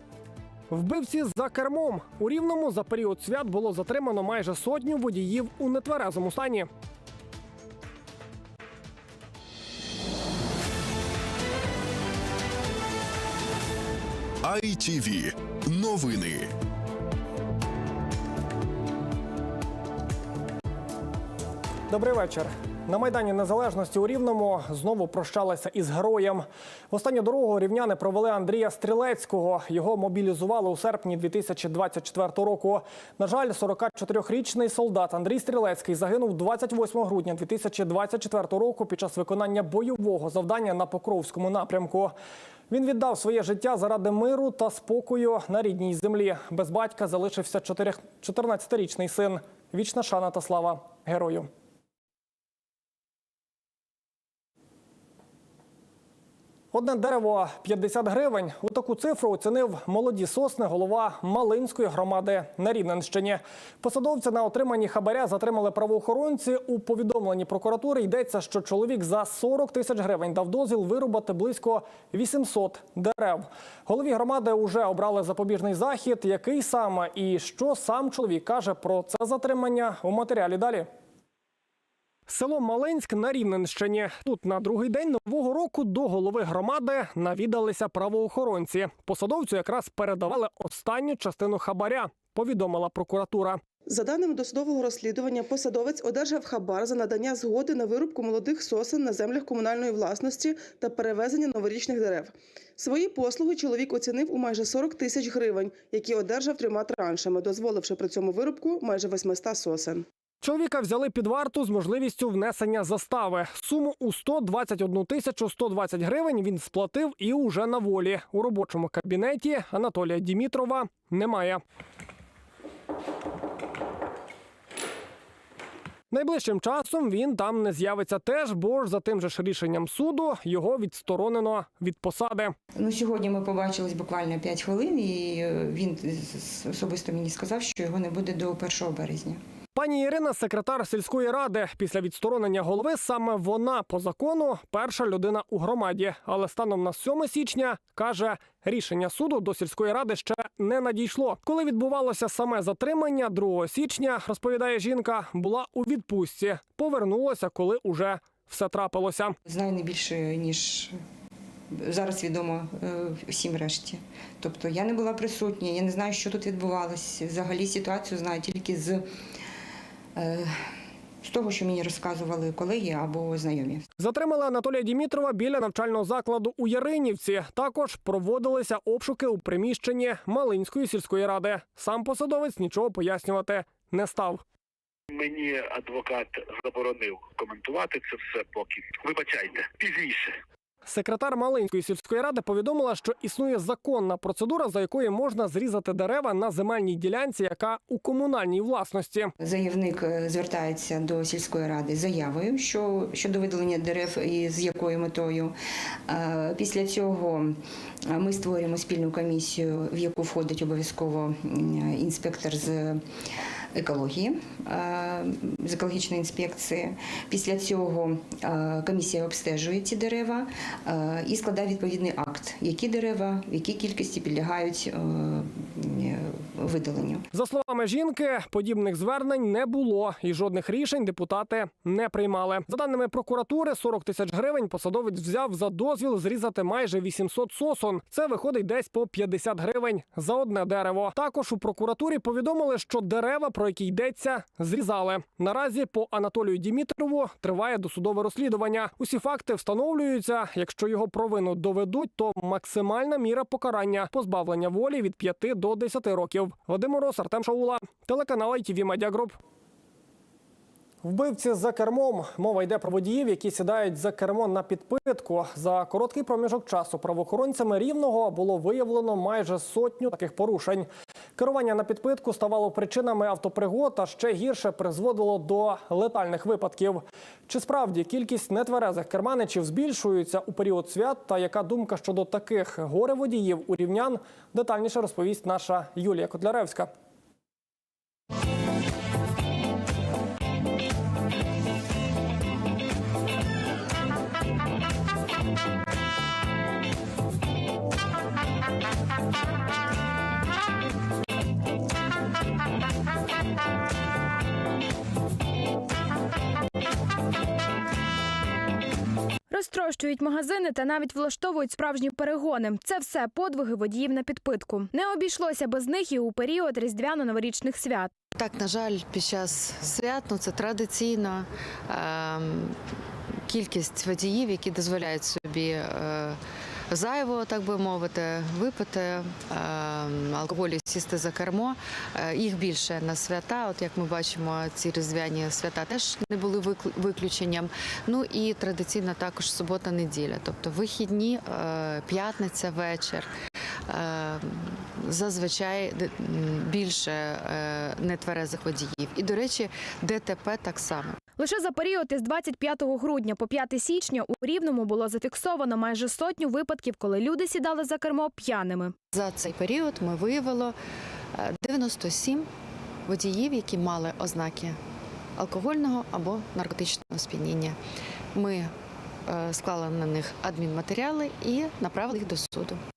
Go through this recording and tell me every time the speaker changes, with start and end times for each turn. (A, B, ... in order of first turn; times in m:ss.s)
0:00.7-0:06.7 A
0:14.4-0:16.5 B
0:21.9-0:42.1 A
0:42.7-0:51.5 A
0:56.7-1:20.9 A
1:22.3-1:33.6 A
1:33.9-1:50.0 C
1:50.4-2:01.6 A
2:06.1-2:12.6 A
2:12.8-2:19.4 D
2:19.8-2:39.4 A
2:39.5-2:41.0 D
2:41.7-2:49.1 D
2:50.2-2:50.5 D
2:51.2-2:53.8 D
2:54.0-3:04.4 A
3:05.1-3:10.3 E
3:10.9-3:19.3 A
3:19.4-3:25.6 D
3:26.1-3:27.6 D
3:28.1-3:33.0 D
3:33.8-3:47.2 D
3:47.3-4:19.4 A
4:21.0-4:46.9 A
5:09.5-5:18.1 F
5:18.4-5:22.8 G
5:23.5-5:26.4 G
5:26.9-5:43.3 G
5:43.9-5:51.1 G
5:51.4-5:58.9 F
5:59.1-6:00.8 G
6:01.4-6:02.5 G
6:03.1-6:04.8 G
6:05.4-6:07.8 G
6:08.4-6:08.7 G
6:09.3-6:12.8 G